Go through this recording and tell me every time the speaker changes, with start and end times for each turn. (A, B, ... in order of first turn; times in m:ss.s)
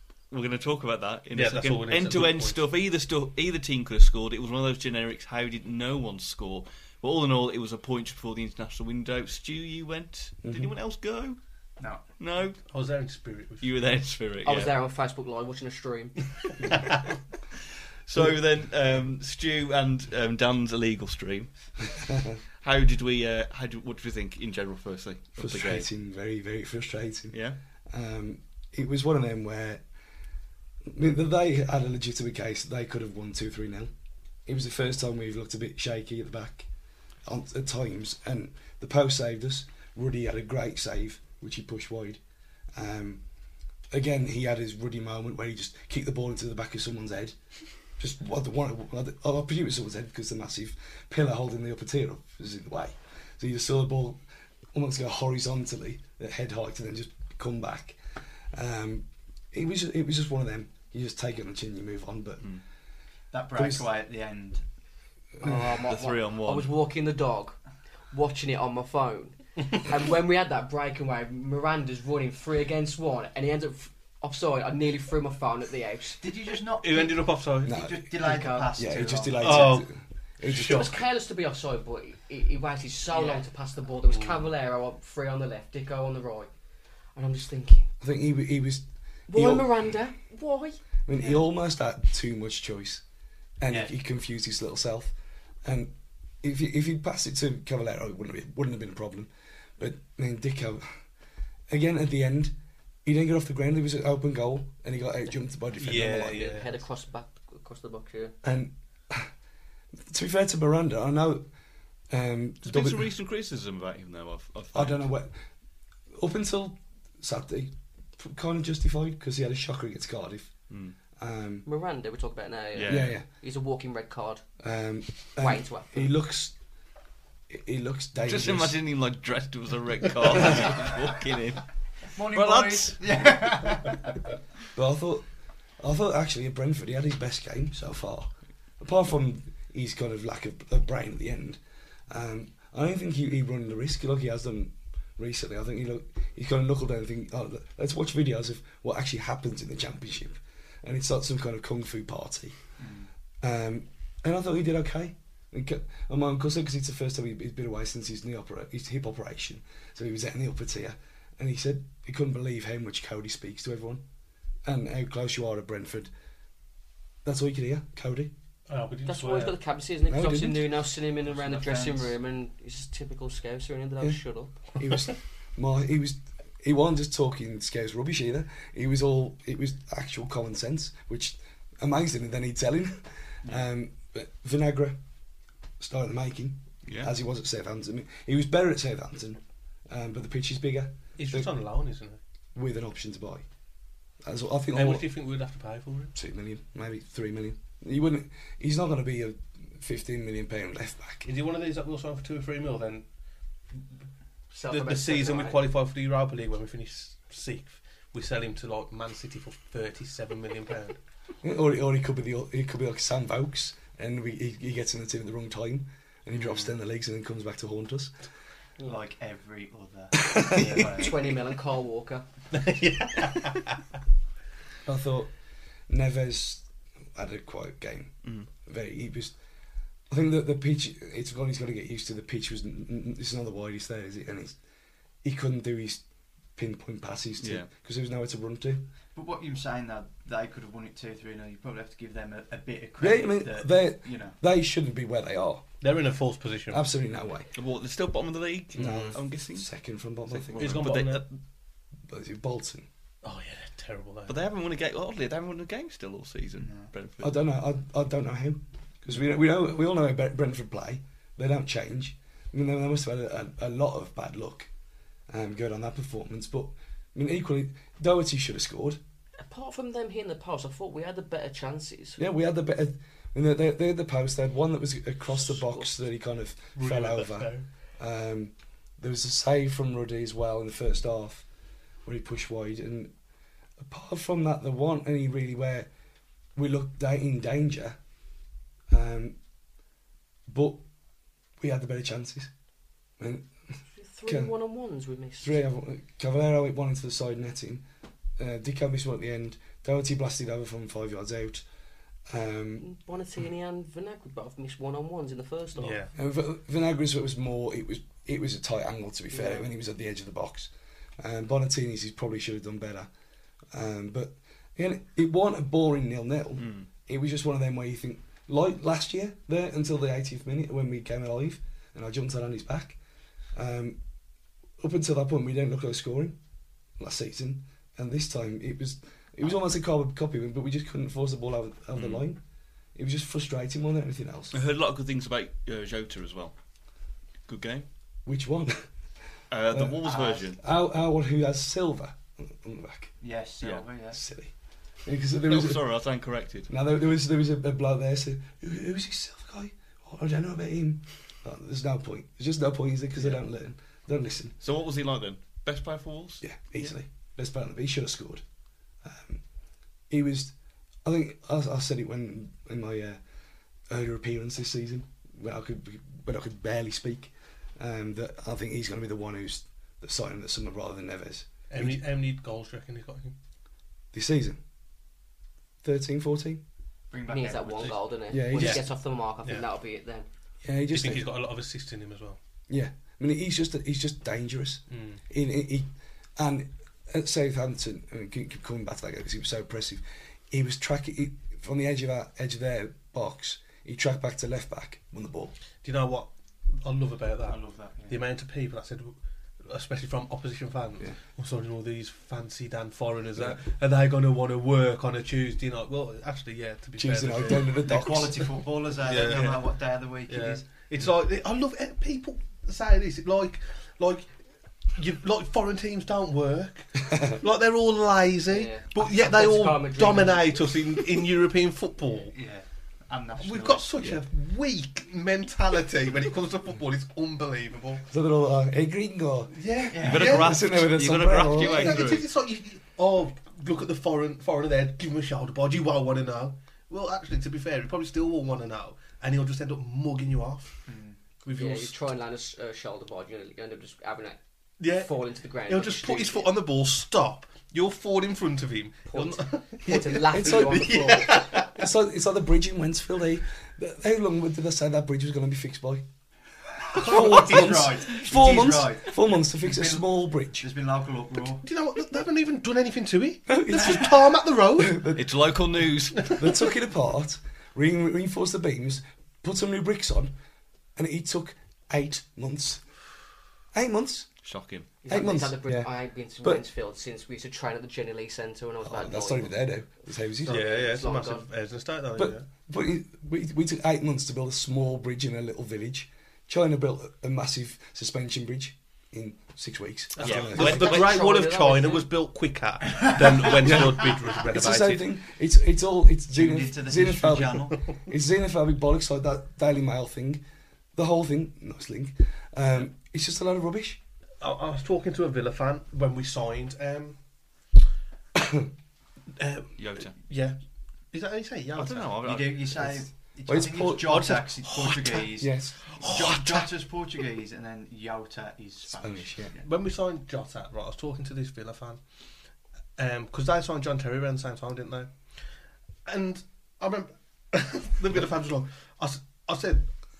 0:00.3-0:11.4 A
0:01.4-0:02.6 B
0:11.8-0:12.0 C
0:12.2-0:12.6 A
0:12.6-0:13.8 B
0:13.6-0:14.7 A
0:14.4-0:16.2 D
0:18.1-0:21.5 A
0:22.6-0:25.9 A
0:25.4-0:29.8 E
0:27.3-0:27.6 A
0:30.9-0:33.9 E
0:34.5-0:36.7 E
0:37.2-0:42.2 E
0:42.8-0:43.2 E
0:43.9-0:47.4 E
0:48.0-0:54.2 E
0:54.7-0:58.0 E
0:58.5-1:02.5 E
1:03.3-1:04.6 C
1:03.6-1:03.9 E
1:05.4-1:07.6 D
1:05.6-1:06.7 A
1:08.1-1:16.3 D
1:16.2-1:19.8 C
1:16.8-1:17.8 B
1:17.6-1:21.0 E
1:18.2-1:18.7 D
1:19.4-1:19.9 B
1:20.4-1:21.0 B
1:20.5-1:26.5 D
1:23.1-1:23.4 C
1:27.2-1:27.9 D
1:28.0-1:29.8 E
1:29.3-1:30.8 D
1:31.1-1:33.0 E
1:33.6-1:41.0 E
1:33.7-1:33.9 C
1:41.7-1:46.5 E
1:45.8-1:46.7 B
1:46.1-1:48.4 D
1:48.4-1:49.3 E
1:50.1-1:51.5 E
1:52.1-1:53.1 E
1:52.6-1:55.1 A
1:54.7-1:55.3 E
1:56.2-2:00.6 E
2:00.7-2:01.0 A
2:01.2-2:01.7 E
2:01.6-2:04.4 D
2:02.8-2:03.1 A
2:02.8-2:03.3 E
2:04.6-2:06.6 E
2:05.4-2:06.1 D
2:07.5-2:08.8 E
2:08.3-2:11.7 A
2:10.4-2:10.7 E
2:12.1-2:14.2 C
2:12.3-2:13.0 A
2:14.8-2:15.2 E
2:15.8-2:32.6 E
2:32.8-2:33.1 C
2:33.4-2:44.0 E
2:44.6-2:46.1 E
2:47.2-2:48.3 E
2:48.7-2:49.6 B
2:49.1-2:54.6 D
2:50.1-2:50.7 E
2:51.3-2:52.1 C
2:54.8-3:05.0 E
3:05.8-3:11.5 E
3:06.9-3:07.1 A
3:11.2-3:12.2 B
3:12.6-3:13.4 E
3:14.2-3:15.1 E
3:14.7-3:16.1 B
3:16.2-3:21.3 E
3:21.2-3:23.0 B
3:24.5-3:25.6 D
3:24.7-3:31.0 B
3:31.4-3:38.2 E
3:36.3-3:36.7 B
3:38.8-3:41.4 C
3:40.3-3:41.0 E
3:40.8-3:42.3 D
3:42.5-3:43.8 B
3:44.8-3:45.3 E
3:45.9-3:49.4 E
3:50.1-3:54.6 E
3:55.2-3:56.0 E
3:56.6-3:58.9 E
3:57.4-3:57.7 A
3:59.2-4:04.4 C
4:03.0-4:05.7 E
4:05.8-4:06.8 B
4:06.7-4:07.5 E
4:07.6-4:09.7 A
4:08.8-4:11.0 E
4:10.3-4:11.4 A
4:10.6-4:11.2 B
4:12.0-4:12.9 E
4:13.2-4:14.4 B
4:14.3-4:17.4 A
4:16.6-4:16.9 C
4:17.2-4:24.7 E
4:25.3-4:29.0 E
4:29.4-4:32.2 D
4:32.2-4:41.4 E
4:36.8-4:37.7 B
4:42.0-4:43.1 E
4:43.8-4:45.9 E
4:46.6-4:48.0 E
4:48.9-4:49.4 E
4:50.5-4:50.8 E
4:51.6-4:52.5 E
4:53.2-4:53.5 E
4:53.9-4:55.6 D
4:54.3-4:54.5 E
4:55.4-4:57.8 E
4:58.4-5:01.6 E
5:02.3-5:02.9 E
5:02.8-5:06.0 D
5:05.8-5:06.1 B
5:06.2-5:13.1 E
5:09.3-5:09.7 D
5:13.7-5:23.0 E
5:16.6-5:16.9 A
5:23.6-5:24.0 E
5:24.8-5:26.4 E
5:27.0-5:32.4 E
5:31.9-5:32.2 A
5:33.0-5:34.6 E
5:34.5-5:36.6 A
5:37.5-5:37.9 A
5:38.3-5:38.9 E
5:39.5-5:40.6 A
5:39.7-5:40.0 E
5:40.1-5:40.4 C
5:40.6-5:43.1 E
5:43.2-5:44.2 C
5:44.1-5:44.5 E
5:45.0-5:45.9 E
5:45.5-5:46.7 A
5:46.7-5:54.6 E
5:54.6-5:56.4 A
5:56.4-5:58.4 E
5:59.0-5:59.4 E
6:00.1-6:00.5 E
6:01.0-6:03.2 E
6:03.9-6:12.0 E
6:11.7-6:13.4 B
6:14.1-6:14.6 E
6:15.8-6:16.6 E
6:17.1-6:18.0 C
6:17.3-6:20.3 D
6:18.3-6:18.8 E
6:18.5-6:18.9 B
6:20.6-6:21.3 E
6:20.9-6:22.4 B
6:22.7-6:35.6 E
6:24.9-6:25.2 B
6:35.8-6:48.1 B
6:37.4-6:38.2 C
6:47.0-6:48.6 E
6:47.8-6:50.7 C
6:49.0-6:49.8 B
6:50.3-6:54.3 B
6:55.0-7:02.3 B
6:58.5-7:00.5 D
7:02.3-7:03.9 C
7:03.4-7:08.0 B
7:08.1-7:09.6 E
7:09.5-7:10.6 B
7:09.9-7:10.6 C
7:10.0-7:12.2 A
7:10.1-7:12.1 E
7:11.6-7:20.8 B
7:20.9-7:21.2 C
7:21.4-7:22.0 B
7:21.5-7:26.5 D
7:24.8-7:31.8 B
7:29.1-7:31.4 D
7:30.2-7:36.0 E
7:36.9-7:41.6 C
7:36.9-7:40.7 E
7:37.1-7:37.6 B
7:41.6-7:45.1 B
7:43.5-7:45.2 E
7:45.2-7:46.4 A
7:46.3-7:50.3 E
7:51.0-7:52.9 E
7:53.7-7:54.3 E
7:54.4-7:54.9 A
7:55.0-8:01.5 D
7:55.1-7:55.9 E
7:58.8-8:00.6 E
8:00.4-8:02.5 B
8:02.2-8:10.9 E
8:10.2-8:15.0 B
8:10.2-8:11.2 A
8:10.5-8:12.1 D
8:13.0-8:13.4 C
8:13.6-8:14.0 E
8:14.5-8:20.4 E
8:16.3-8:17.8 C
8:21.0-8:24.0 E
8:24.4-8:27.2 B
8:28.4-8:28.7 E
8:29.4-8:30.6 B
8:29.8-8:30.2 A
8:31.1-8:32.2 B
8:31.8-8:32.8 A
8:32.2-8:39.7 C
8:33.5-8:34.8 E
8:34.6-8:35.3 B
8:35.4-8:36.6 E
8:38.9-8:39.5 E
8:39.6-8:42.0 B
8:43.0-8:45.4 B
8:46.0-8:49.9 B